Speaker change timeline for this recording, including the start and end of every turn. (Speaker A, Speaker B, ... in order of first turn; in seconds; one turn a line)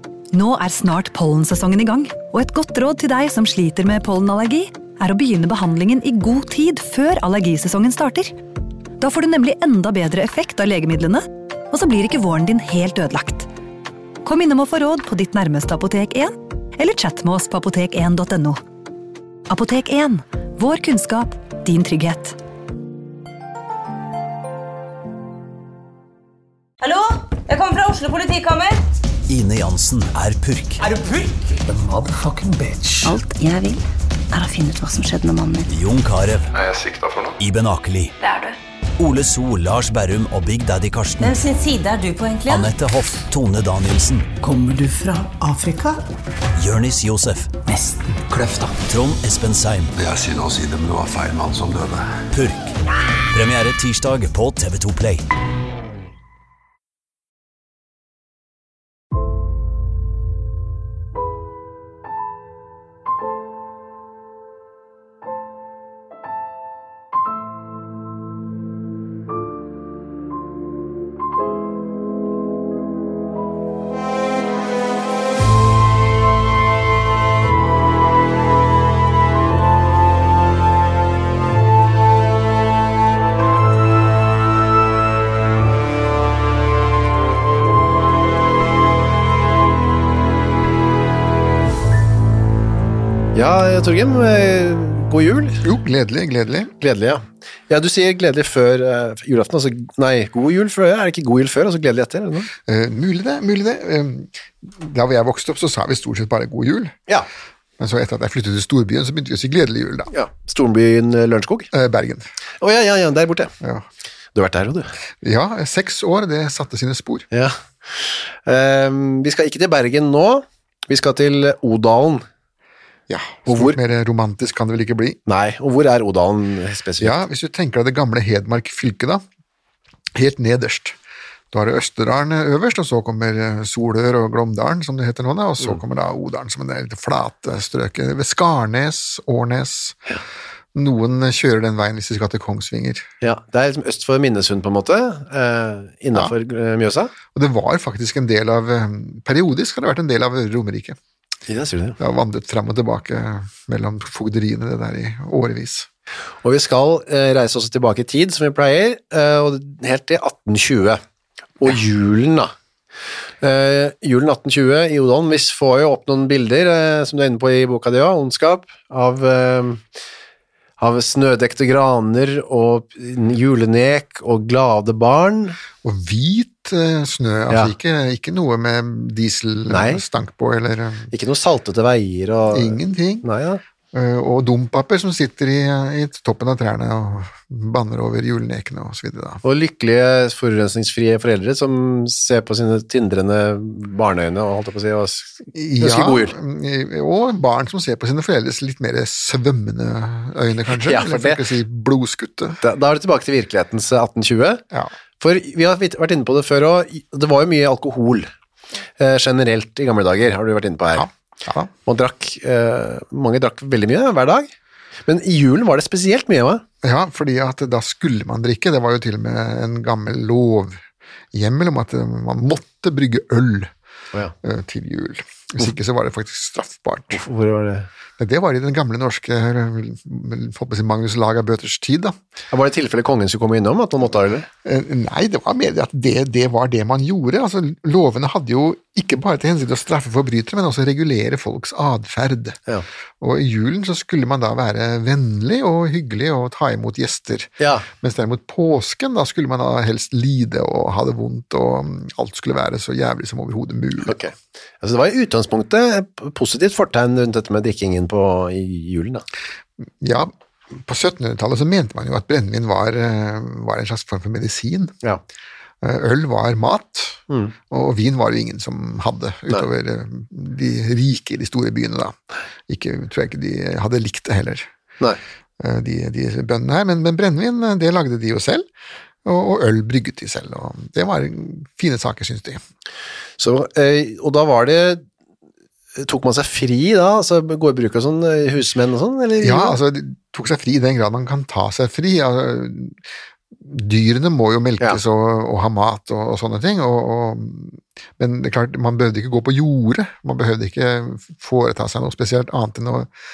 Speaker A: 0.3-8.3
Speaker A: 9.0-13.5
Speaker A: 14.2-18.6
Speaker A: 19.5-22.4
Speaker B: 26.8-28.8
Speaker C: 29.3-30.8
Speaker B: 30.9-31.4
Speaker D: 31.6-33.2
Speaker E: 33.0-35.7
Speaker C: 35.7-36.5
Speaker F: 36.5-37.4
Speaker C: 37.4-38.2
Speaker C: 39.0-41.4
Speaker B: 41.2-42.7
Speaker C: 42.5-44.3
Speaker D: 44.4-46.0
Speaker C: 46.5-47.6
Speaker D: 47.6-48.8
Speaker C: 48.9-49.9
Speaker F: 50.0-52.2
Speaker C: 52.3-52.8
Speaker C: 53.3-55.2
Speaker G: 93.3-95.6
Speaker H: 95.6-96.8
Speaker G: 96.8-102.5
Speaker H: 102.7-107.0
Speaker H: 107.8-110.1
Speaker G: 110.1-111.7
Speaker H: 111.7-112.3
Speaker G: 112.6-113.5
Speaker G: 114.3-114.9
Speaker H: 115.2-117.2
Speaker G: 117.3-122.2
Speaker H: 123.1-125.2
Speaker G: 123.5-123.8
Speaker G: 125.3-127.2
Speaker H: 127.0-129.2
Speaker H: 130.2-131.0
Speaker H: 131.5-140.0
Speaker H: 140.8-143.1
Speaker G: 143.2-147.1
Speaker H: 147.3-151.0
Speaker G: 151.5-152.0
Speaker H: 152.0-155.9
Speaker G: 156.4-161.0
Speaker G: 161.6-162.5
Speaker G: 163.4-169.8
Speaker G: 170.8-175.6
Speaker H: 175.8-181.1
Speaker G: 179.7-180.0
Speaker G: 181.1-183.6
Speaker H: 182.5-183.3
Speaker H: 183.9-189.4
Speaker G: 189.4-196.4
Speaker H: 195.5-202.6
Speaker G: 200.7-201.4
Speaker G: 202.6-204.6
Speaker G: 205.2-208.3
Speaker G: 209.0-211.1
Speaker H: 210.9-211.7
Speaker G: 211.9-214.5
Speaker G: 215.1-216.6
Speaker H: 216.8-220.8
Speaker H: 221.3-223.7
Speaker H: 224.4-227.2
Speaker G: 227.1-227.9
Speaker H: 228.2-232.2
Speaker G: 232.5-234.5
Speaker H: 234.6-242.6
Speaker H: 243.2-254.2
Speaker G: 247.6-247.9
Speaker G: 254.1-259.2
Speaker H: 260.0-264.9
Speaker H: 265.8-272.2
Speaker H: 272.7-274.7
Speaker H: 275.6-278.7
Speaker H: 279.2-282.6
Speaker G: 283.4-285.0
Speaker G: 286.0-289.8
Speaker H: 289.4-293.0
Speaker H: 293.6-303.1